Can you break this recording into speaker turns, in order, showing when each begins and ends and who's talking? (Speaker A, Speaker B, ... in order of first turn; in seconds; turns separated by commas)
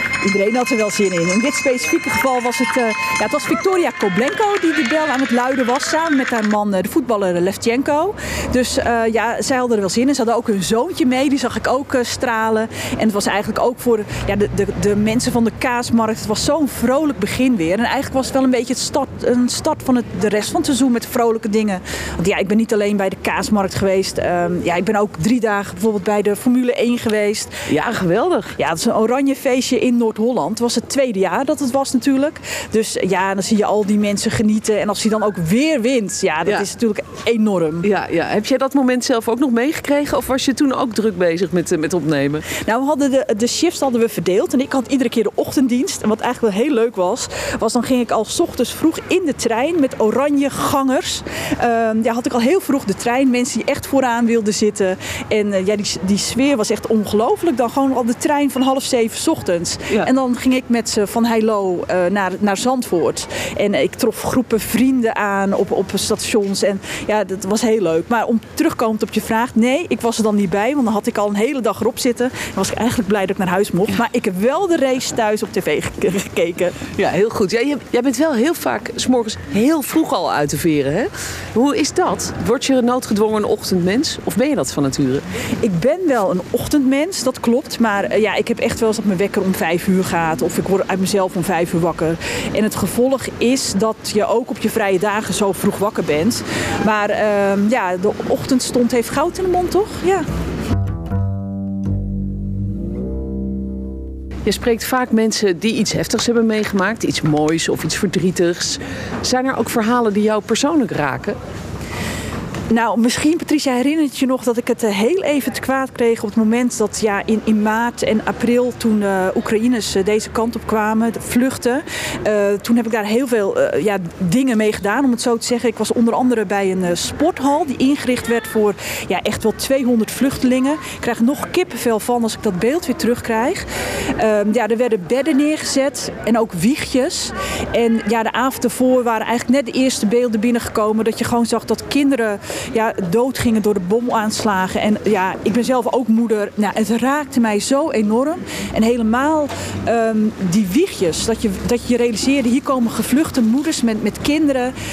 Speaker A: 0.2-27.6, Speaker B: 27.7-28.5, Speaker A: 28.6-37.9, Speaker B: 37.8-42.5, Speaker A: 42.6-76.8, Speaker B: 77.0-85.2, Speaker A: 85.6-100.2, Speaker B: 104.5-111.4, Speaker A: 112.7-154.7